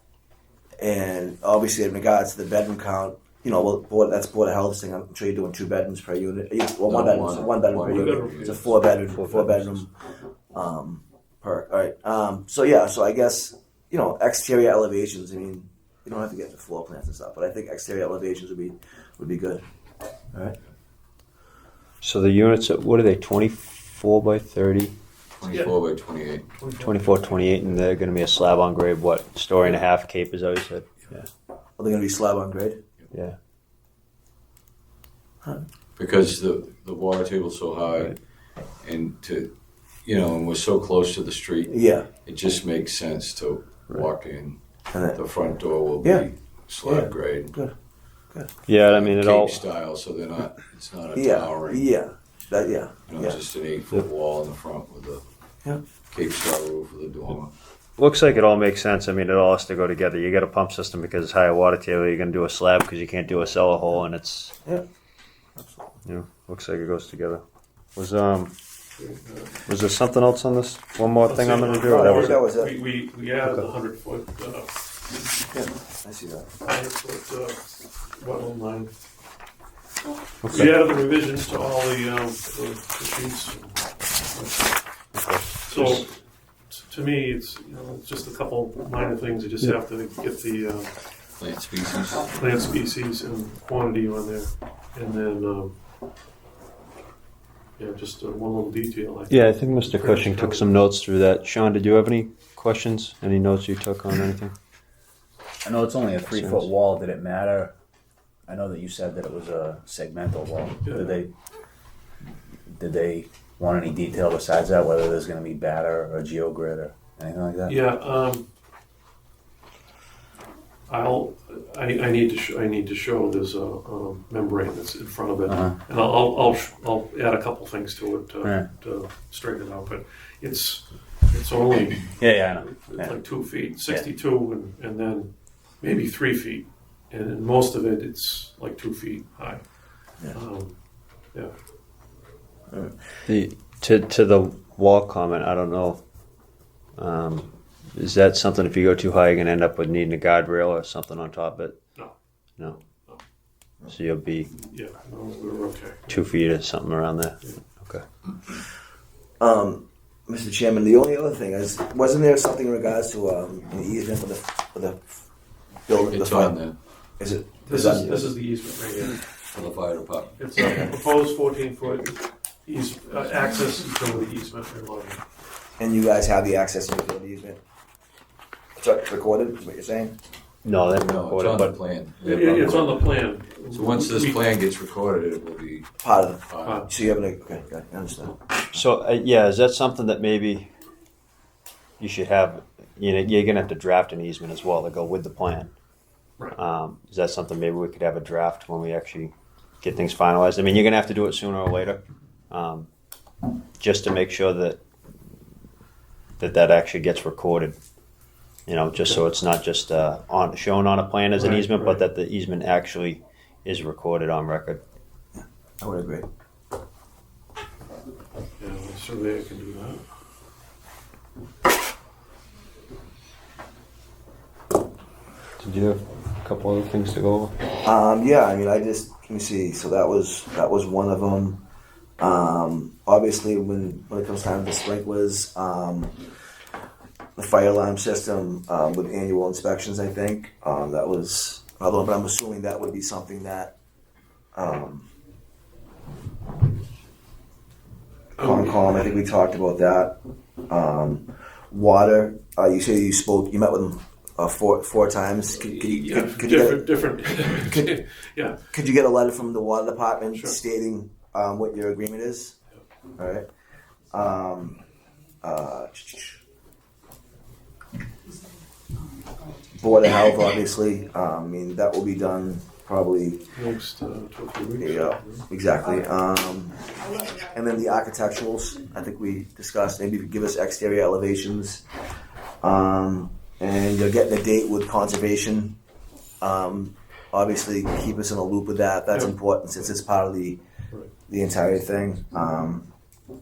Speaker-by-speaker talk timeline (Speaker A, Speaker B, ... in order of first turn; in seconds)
Speaker A: 0.8-9.9, 10.5-19.6, 20.3-20.6, 31.8-32.8, 41.7-42.1, 44.9-45.2, 46.0-46.3, 46.8-47.7, 51.1-53.4, 65.6-65.9, 71.8-72.7, 75.5-76.5, 159.4-165.0, 165.9-166.6, 167.2-168.3, 175.8-177.6, 178.8-180.2, 186.0-188.5, 215.3-216.3, 227.8-231.6, 232.2-236.2, 237.4-243.7, 244.6-245.1, 248.4-250.2, 250.7-258.0, 258.7-262.6, 263.2-263.5, 264.1-264.8, 265.4-266.4, 269.7-273.4, 274.8-281.8, 282.6-285.8, 286.4-290.6, 291.3-292.9
Speaker B: 6.9-8.7, 25.4-26.5, 29.6-29.9, 36.0-38.2, 38.8-39.5, 40.0-47.5, 48.8-51.9, 53.1-55.2, 56.1-57.5, 91.4-92.3, 166.1-166.8, 169.5-170.8, 180.9-183.1, 183.7-185.9, 186.5-186.9
Speaker C: 7.8-8.9, 25.5-25.8, 26.6-27.5, 69.0-69.6, 71.2-74.7, 76.6-78.9, 80.5-84.8, 85.7-86.1, 86.7-90.9, 92.3-95.7, 97.8-100.8, 110.8-111.2, 117.7-118.5, 120.9-139.6, 140.3-140.8, 152.9-153.2, 154.5-156.2, 167.7-169.2, 170.4-175.2, 182.2-184.4, 186.6-186.9, 211.4-212.0, 218.6-220.0, 248.4-249.0, 255.7-258.6, 273.5-275.5
Speaker D: 9.2-9.8, 22.0-24.9, 26.8-31.3, 48.7-49.6, 58.0-64.6, 66.0-67.4, 68.0-68.5, 69.7-72.4, 80.4-80.8, 85.2-86.1, 99.3-104.5, 106.3-106.7, 143.3-146.0, 147.0-151.8, 153.9-154.5, 156.1-158.1, 180.6-181.8, 182.3-182.9, 188.7-190.7, 192.0-195.7, 196.6-202.0, 202.5-202.9, 203.8-204.8, 206.4-207.8, 208.7-214.8, 225.6-227.6
Speaker E: 105.6-107.7, 108.5-111.3, 112.7-117.8, 125.5-125.8, 128.4-128.7, 132.2-133.2